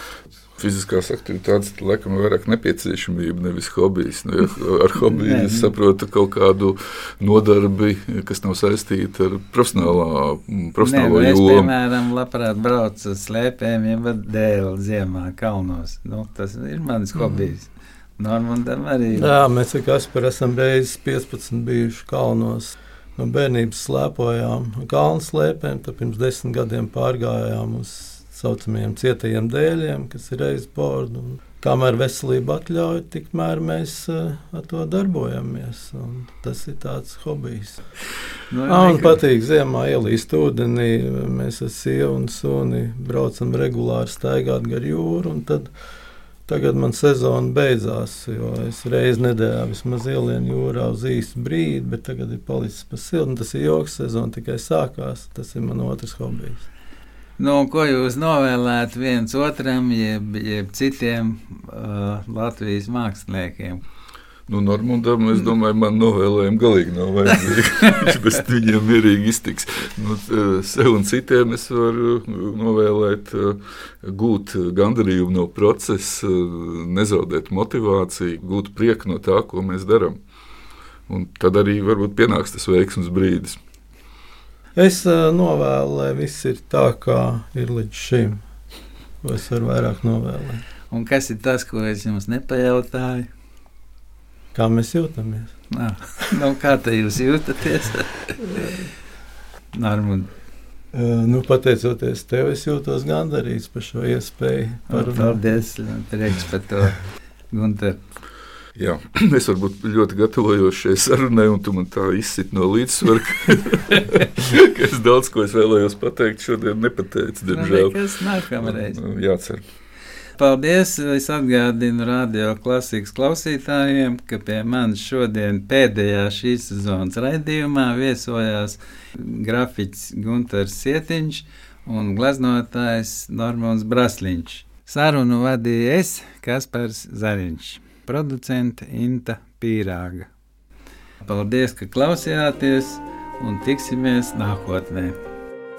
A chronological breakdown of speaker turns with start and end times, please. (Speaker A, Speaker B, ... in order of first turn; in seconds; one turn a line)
Speaker A: 0.6-11.7
Speaker B: 5.0-5.7
Speaker B: 10.8-19.3
Speaker C: 19.1-37.8
Speaker B: 38.5-39.2
Speaker C: 38.7-45.7
Speaker C: 46.5-56.7
Speaker B: 57.4-63.8
Speaker A: 64.5-80.2
Speaker A: 81.1-83.6
Speaker C: 84.8-88.4
Speaker C: 89.2-90.6
Speaker B: 90.9-93.3
Speaker C: 94.5-95.5
Speaker B: 95.7-98.7
Speaker B: 99.7-100.3
Speaker C: 100.9-105.4
Speaker B: 104.9-107.0
Speaker B: 107.5-108.0
Speaker A: 108.8-118.0
Speaker B: 117.5-119.0
Speaker A: 118.6-119.7
Speaker B: 120.4-140.3
Speaker B: 141.2-145.2